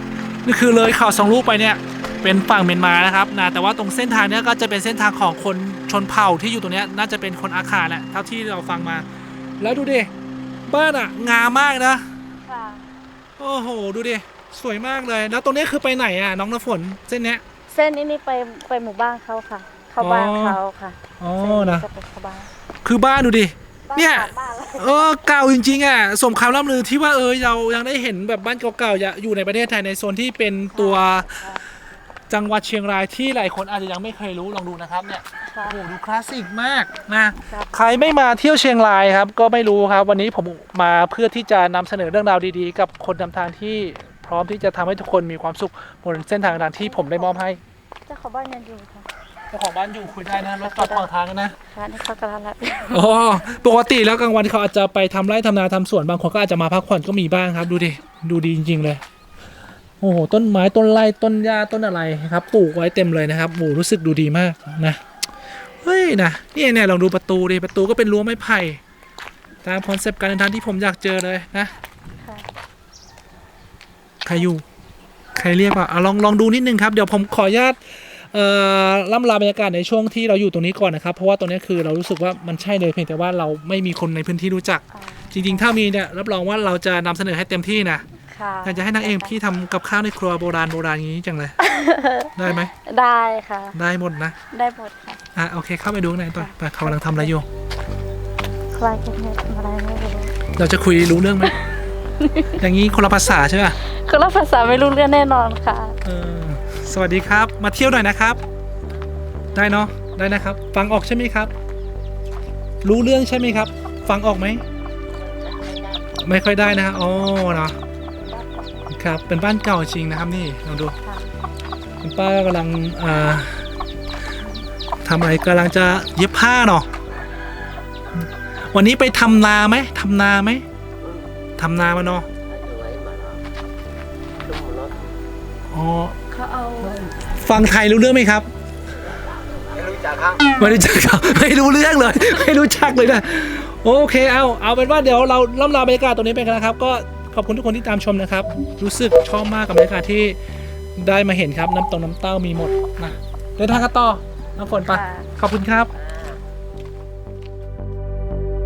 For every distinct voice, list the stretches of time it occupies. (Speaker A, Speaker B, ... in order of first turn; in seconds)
Speaker A: 0.4-9.0, 9.6-10.1, 10.7-12.1, 13.4-17.4, 20.0-20.6, 21.2-21.9, 22.8-31.4, 32.3-47.6, 49.5-51.5, 52.9-59.0, 60.0-65.0, 65.8-68.8, 69.6-71.7, 74.2-74.6, 75.3-88.0, 88.6-91.6, 92.3-92.7, 93.7-94.3, 95.3-97.5, 100.5-101.6, 102.6-103.8, 106.0-108.4, 109.5-111.5, 112.8-114.6, 116.2-117.8, 118.9-121.0, 122.0-123.7, 125.0-126.9, 128.2-130.6, 131.6-132.3, 135.7-136.2, 136.8-138.5, 140.6-150.4, 151.0-155.9
Speaker B: 12.4-12.9, 17.7-22.5, 23.9-25.1, 30.7-31.6, 35.5-35.8, 46.2-47.5, 48.1-49.1, 50.5-51.1, 51.7-53.2, 72.2-72.5, 84.9-85.7, 88.3-89.3, 91.6-93.7, 94.5-95.2, 96.4-97.3, 98.7-100.4, 102.2-102.5, 103.8-106.0, 115.4-116.0, 118.0-118.7, 121.0-121.3, 136.3-137.0, 154.8-155.3
Speaker C: 132.4-133.4, 134.4-134.9, 139.6-140.5